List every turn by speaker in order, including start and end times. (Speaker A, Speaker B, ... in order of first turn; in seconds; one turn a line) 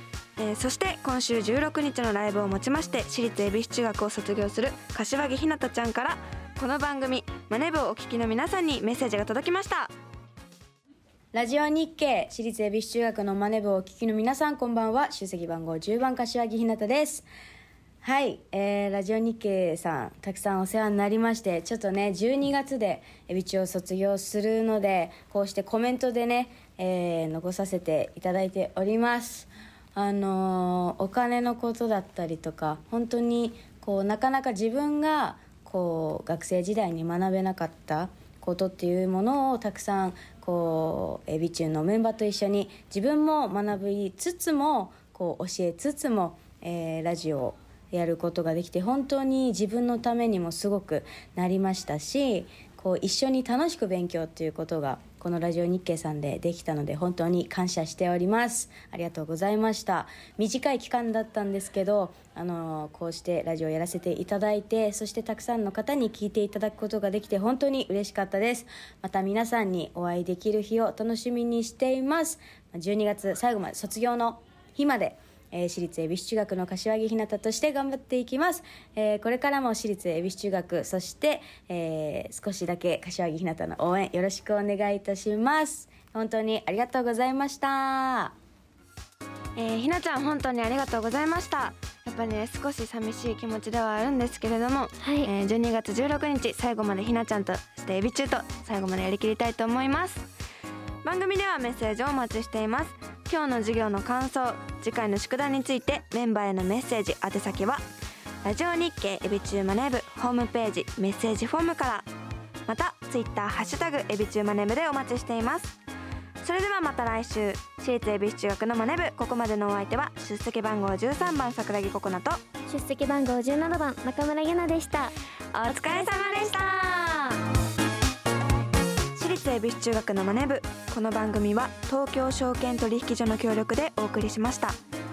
Speaker A: 0.4-9.9
Speaker B: 11.3-17.3
Speaker B: 18.0-88.3
Speaker A: 89.5-100.3
Speaker C: 95.0-95.3
Speaker A: 101.0-107.8
Speaker A: 108.4-112.1
Speaker A: 112.7-115.8
Speaker A: 116.4-122.4
Speaker C: 122.7-125.1
Speaker A: 125.5-127.3
Speaker C: 125.7-127.2
Speaker A: 129.1-134.8